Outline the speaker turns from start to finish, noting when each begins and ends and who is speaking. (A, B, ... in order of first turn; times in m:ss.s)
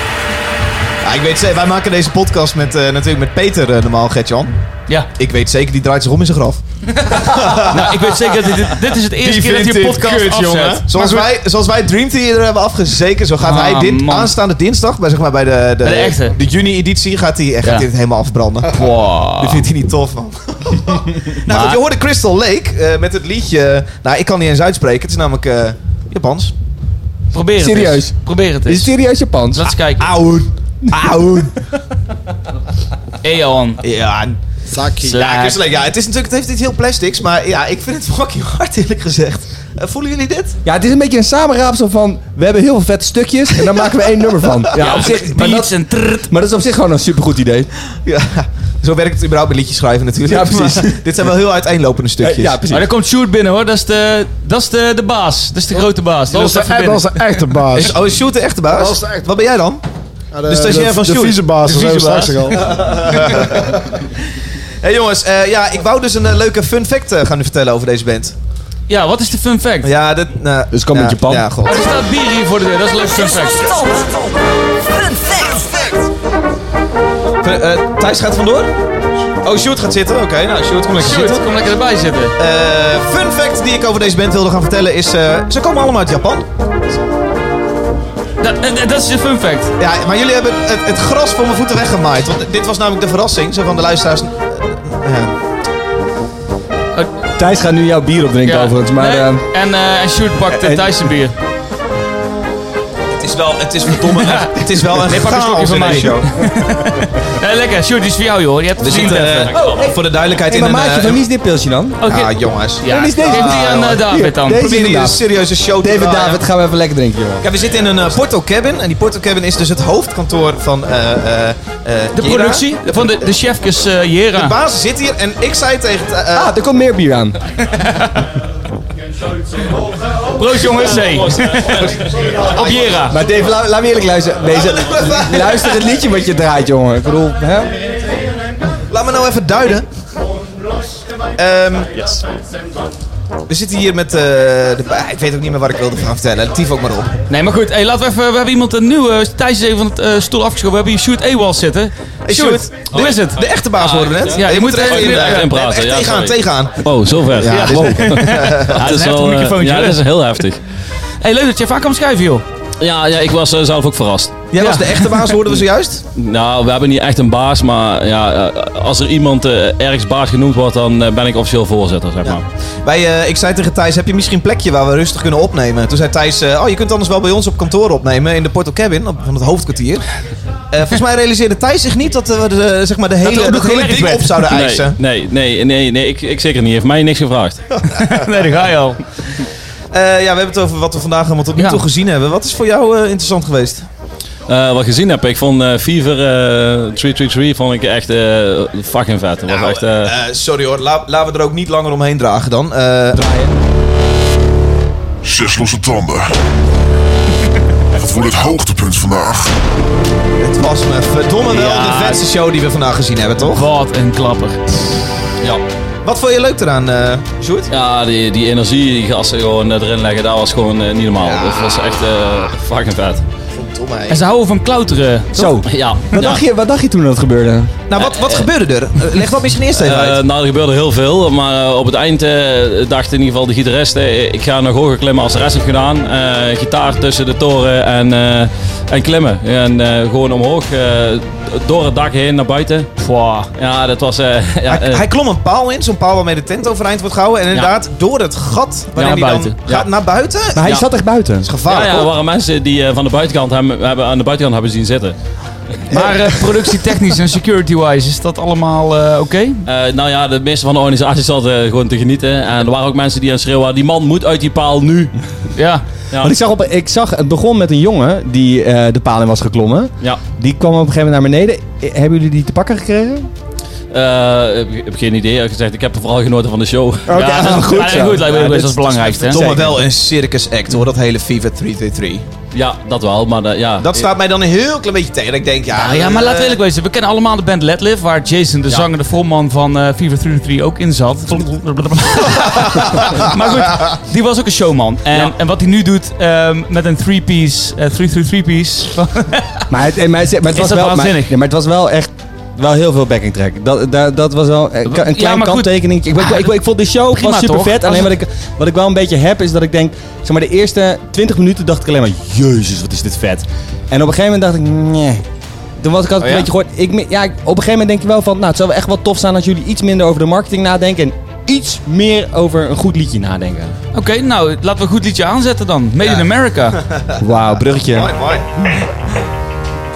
0:01.0-0:04.5 A
0:05.1-0:08.6 A
0:07.0-0:11.3 B
0:09.2-0:18.8 A
0:13.4-0:14.4 B
0:15.8-0:16.4 B
0:18.7-0:19.7 B
0:19.4-0:26.5 A
0:21.4-0:21.8 B
0:27.3-0:28.9 B
0:27.6-0:29.7 C
0:29.5-0:30.1 B
0:30.0-0:31.5 A
0:30.9-0:31.4 C
0:33.2-0:33.8 B
0:33.8-0:34.4 A
0:34.7-0:35.2 D
0:35.0-0:35.6 B
0:35.0-0:40.6 A
0:40.6-0:47.7 C
0:44.8-0:46.3 B
0:48.0-0:52.6 A
0:50.2-0:51.0 C
0:52.2-0:52.9 C
0:52.7-0:57.6 B
0:56.3-0:58.0 D
0:57.7-0:59.8 A
0:58.7-0:59.3 D
1:00.3-1:03.8 D
1:00.4-1:04.0 A
1:01.7-1:02.5 B
1:04.8-1:08.4 A
1:08.9-1:09.9 B
1:09.8-1:11.8 A
1:10.7-1:11.6 C
1:11.7-1:13.8 B
1:13.2-1:14.4 E
1:15.0-1:16.0 E
1:17.4-1:18.7 A
1:19.4-1:21.5 A
1:21.0-1:22.3 B
1:22.4-1:26.4 A
1:28.4-1:29.7 B
1:29.8-1:35.4 A
1:37.4-1:39.4 C
1:38.4-1:41.3 B
1:40.5-1:41.0 C
1:43.1-1:46.3 A
1:44.0-1:49.6 B
1:48.8-1:51.2 A
1:49.5-1:49.9 F
1:49.6-1:52.0 C
1:52.0-1:54.7 B
1:52.0-1:56.4 A
1:52.8-1:55.2 C
1:55.8-1:57.5 C
1:57.4-2:02.7 A
2:02.2-2:04.6 B
2:04.4-2:06.5 A
2:06.3-2:07.4 C
2:07.6-2:08.3 B
2:10.3-2:13.2 B
2:12.2-2:12.9 A
2:13.1-2:17.8 C
2:14.5-2:15.9 A
2:18.9-2:19.9 A
2:21.4-2:22.0 A
2:23.5-2:27.1 A
2:27.3-2:33.4 B
2:32.2-2:39.0 A
2:32.9-2:40.6 F
2:34.3-2:35.5 B
2:37.5-2:40.4 B
2:41.2-2:42.4 B
2:42.8-2:44.4 F
2:44.5-2:46.0 A
2:44.6-2:45.4 B
2:46.1-2:52.4 F
2:52.2-3:00.0 A
3:00.7-3:05.0 A
3:03.2-3:04.4 B
3:04.5-3:07.6 F
3:07.9-3:09.0 B
3:09.9-3:13.9 A
3:11.6-3:11.8 B
3:14.5-3:20.1 F
3:19.5-3:23.2 A
3:23.1-3:23.5 C
3:25.2-3:26.3 G
3:28.0-3:29.5 G
3:30.4-3:33.6 A
3:31.5-3:32.2 B
3:33.4-3:34.7 B
3:36.0-3:37.7 A
3:37.7-3:43.2 F
3:41.2-3:41.9 A
3:43.5-3:44.2 A
3:44.1-3:45.6 B
3:45.3-3:47.8 C
3:45.6-3:46.4 F
3:47.9-3:50.2 A
3:48.0-3:48.5 F
3:49.7-4:02.9 F
4:03.0-4:03.5 B
4:03.6-4:05.0 F
4:04.7-4:10.8 A
4:09.0-4:09.6 B
4:10.5-4:11.5 C
4:11.4-4:12.1 A
4:11.6-4:15.2 F
4:15.9-4:19.6 B
4:19.6-4:25.1 F
4:25.6-4:25.8 B
4:26.2-4:33.3 C
4:33.9-4:38.0 F
4:37.1-4:39.8 C
4:37.1-4:39.5 B
4:39.2-4:42.2 A
4:42.5-4:44.0 F
4:43.8-4:46.6 A
4:45.7-4:59.7 B
4:59.7-5:15.2 C
5:00.5-5:01.3 B
5:04.8-5:06.5 B
5:07.1-5:08.1 B
5:15.8-5:23.8 C
5:23.9-5:26.8 B
5:26.9-5:27.2 A
5:27.2-5:28.1 C
5:27.8-5:28.5 A